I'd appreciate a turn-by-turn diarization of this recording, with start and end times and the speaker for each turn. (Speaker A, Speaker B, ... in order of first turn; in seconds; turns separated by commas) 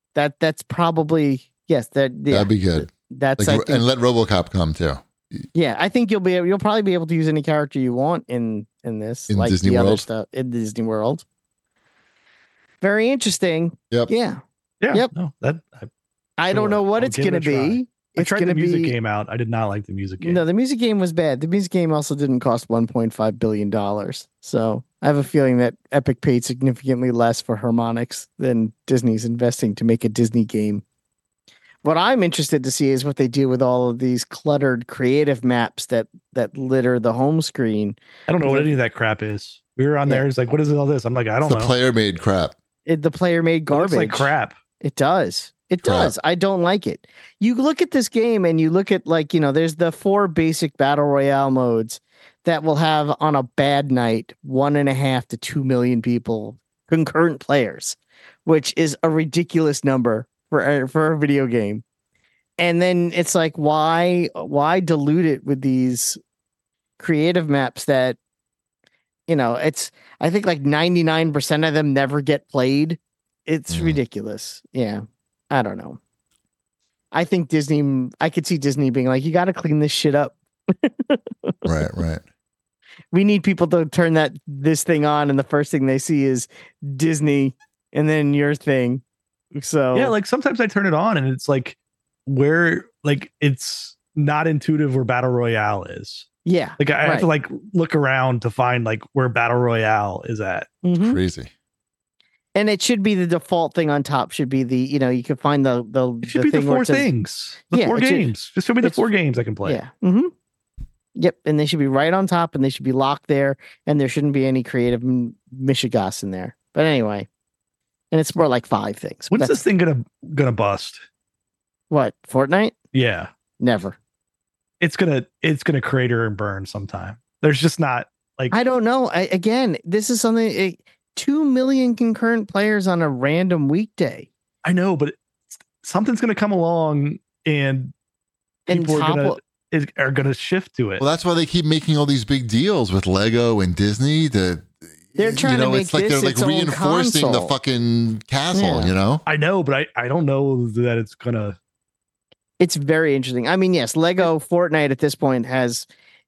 Speaker A: 0.1-3.8, Speaker B: 2.3-5.4, Speaker A: 5.5-11.2, Speaker B: 9.3-10.1, Speaker A: 12.8-14.4, Speaker C: 14.8-15.9, Speaker A: 16.4-18.9, Speaker C: 16.5-20.4, Speaker A: 20.2-30.8, Speaker A: 31.8-38.7, Speaker C: 38.3-41.7, Speaker B: 41.4-42.5, Speaker A: 42.9-61.8, Speaker C: 43.7-44.5, Speaker B: 45.8-46.1, Speaker A: 62.6-66.2, Speaker A: 67.0-68.2, Speaker A: 69.3-76.0, Speaker B: 73.7-74.0, Speaker A: 77.1-81.7, Speaker B: 81.6-82.2, Speaker A: 83.1-89.0, Speaker A: 89.5-90.1, Speaker C: 89.9-96.2, Speaker A: 96.4-97.3, Speaker C: 96.8-100.7, Speaker A: 100.8-101.2, Speaker B: 101.0-101.5, Speaker A: 102.5-107.1, Speaker C: 106.2-109.8, Speaker A: 107.7-108.3, Speaker A: 109.6-110.3, Speaker A: 111.1-117.3, Speaker A: 118.1-119.6, Speaker C: 119.3-121.0, Speaker A: 121.9-122.7, Speaker C: 122.9-123.3, Speaker A: 123.6-124.0, Speaker C: 124.8-128.5, Speaker A: 128.5-134.3, Speaker C: 134.6-137.9, Speaker A: 138.7-139.4, Speaker C: 138.7-141.0, Speaker B: 141.0-149.2, Speaker A: 145.2-147.5, Speaker A: 148.5-148.9, Speaker C: 149.2-151.6, Speaker A: 152.6-155.9